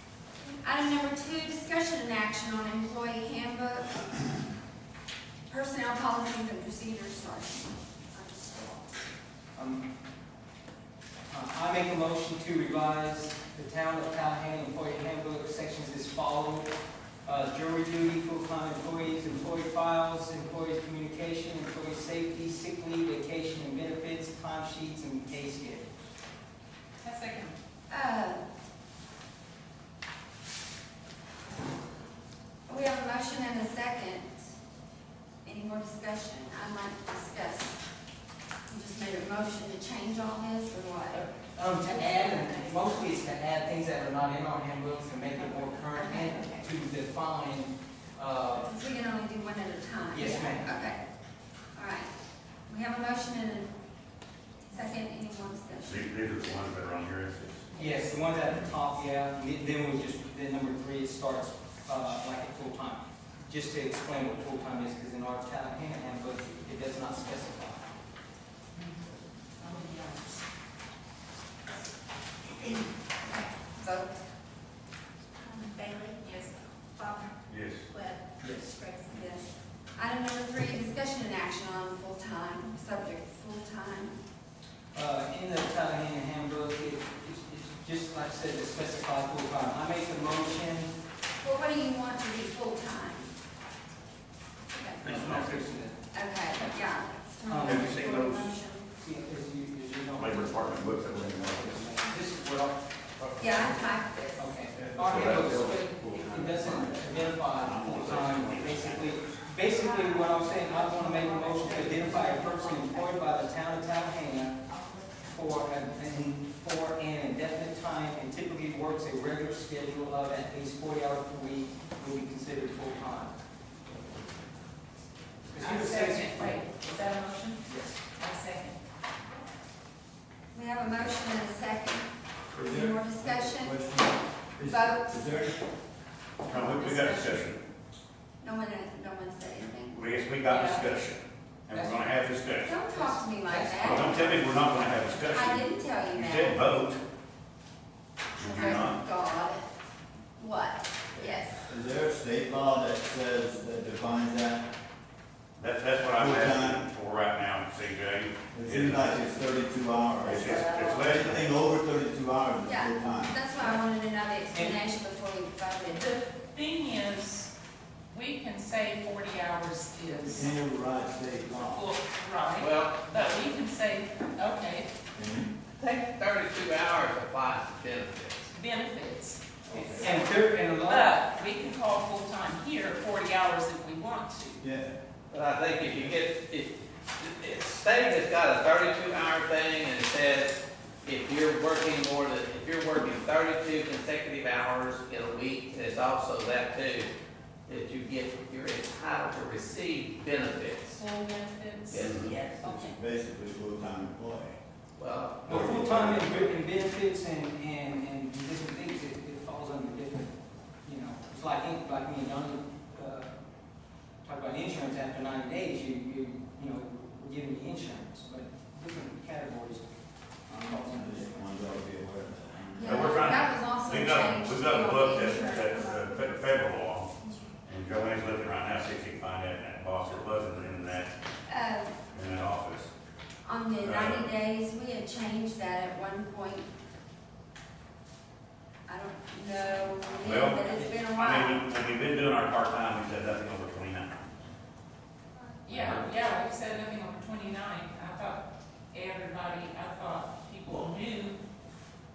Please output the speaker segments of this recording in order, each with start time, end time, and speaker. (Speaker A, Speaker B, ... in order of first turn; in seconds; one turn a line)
Speaker A: 0.6-4.0
Speaker A: 5.5-8.9
Speaker B: 9.6-9.8
Speaker B: 11.3-16.7
Speaker B: 17.2-25.9
Speaker C: 27.0-27.6
Speaker A: 27.9-28.4
Speaker A: 32.7-34.4
Speaker A: 35.4-37.8
Speaker A: 38.7-41.2
Speaker B: 41.1-48.7
Speaker D: 42.1-42.5
Speaker A: 45.9-46.6
Speaker A: 48.6-51.0
Speaker B: 50.1-50.7
Speaker A: 51.8-52.1
Speaker A: 52.7-53.7
Speaker A: 54.7-56.1
Speaker E: 55.8-57.7
Speaker B: 57.7-67.9
Speaker C: 68.7-69.0
Speaker C: 69.6-70.4
Speaker D: 72.6-72.9
Speaker A: 73.3-74.2
Speaker D: 75.4-77.3
Speaker E: 77.5-77.9
Speaker D: 77.9-79.4
Speaker B: 78.4-78.7
Speaker A: 79.1-84.2
Speaker B: 84.9-90.9
Speaker A: 91.4-93.3
Speaker A: 94.7-95.2
Speaker B: 95.0-96.0
Speaker E: 95.0-95.6
Speaker A: 96.1-98.9
Speaker B: 97.5-98.0
Speaker E: 97.7-98.5
Speaker B: 99.0-102.8
Speaker E: 100.2-101.9
Speaker E: 103.2-103.6
Speaker A: 103.4-104.5
Speaker B: 104.4-114.6
Speaker E: 104.8-105.8
Speaker F: 105.0-106.8
Speaker E: 106.4-107.0
Speaker E: 107.5-109.4
Speaker D: 110.1-113.2
Speaker B: 115.2-123.3
Speaker B: 125.5-126.5
Speaker C: 125.6-127.6
Speaker B: 127.7-128.0
Speaker C: 128.1-128.8
Speaker A: 130.5-132.1
Speaker F: 132.5-135.6
Speaker A: 132.6-133.8
Speaker A: 134.6-135.4
Speaker E: 136.5-137.6
Speaker C: 136.5-137.5
Speaker A: 138.4-140.1
Speaker E: 139.9-142.8
Speaker C: 140.5-140.9
Speaker B: 141.7-142.0
Speaker A: 142.6-144.2
Speaker B: 142.9-144.8
Speaker E: 143.8-147.0
Speaker A: 145.2-146.7
Speaker E: 148.3-149.0
Speaker A: 148.4-149.7
Speaker A: 150.4-151.6
Speaker F: 151.7-154.7
Speaker E: 155.6-159.2
Speaker F: 156.2-156.8
Speaker F: 158.5-163.4
Speaker E: 160.2-161.5
Speaker A: 160.5-161.0
Speaker A: 162.6-166.1
Speaker B: 164.5-164.8
Speaker C: 165.9-167.5
Speaker C: 168.1-170.5
Speaker F: 170.3-171.9
Speaker C: 171.6-174.9
Speaker G: 172.6-173.4
Speaker F: 175.2-175.5
Speaker G: 175.8-178.5
Speaker C: 178.5-180.3
Speaker F: 179.7-180.1
Speaker G: 179.7-180.1
Speaker B: 180.0-181.1
Speaker C: 180.8-184.6
Speaker F: 184.6-184.9
Speaker G: 185.3-197.1
Speaker F: 185.9-186.1
Speaker G: 197.7-201.0
Speaker C: 201.0-203.0
Speaker G: 201.9-202.6
Speaker F: 201.9-204.6
Speaker G: 205.0-205.7
Speaker B: 205.5-210.3
Speaker F: 205.5-206.2
Speaker B: 210.8-213.3
Speaker B: 214.2-219.8
Speaker F: 220.5-223.2
Speaker B: 220.6-221.3
Speaker A: 222.8-226.2
Speaker E: 222.8-227.1
Speaker E: 227.7-231.1
Speaker A: 231.5-232.0
Speaker E: 232.1-232.9
Speaker A: 233.4-236.7
Speaker E: 233.8-234.3
Speaker A: 238.9-241.6
Speaker E: 240.2-244.3
Speaker C: 245.7-251.4
Speaker E: 245.7-246.1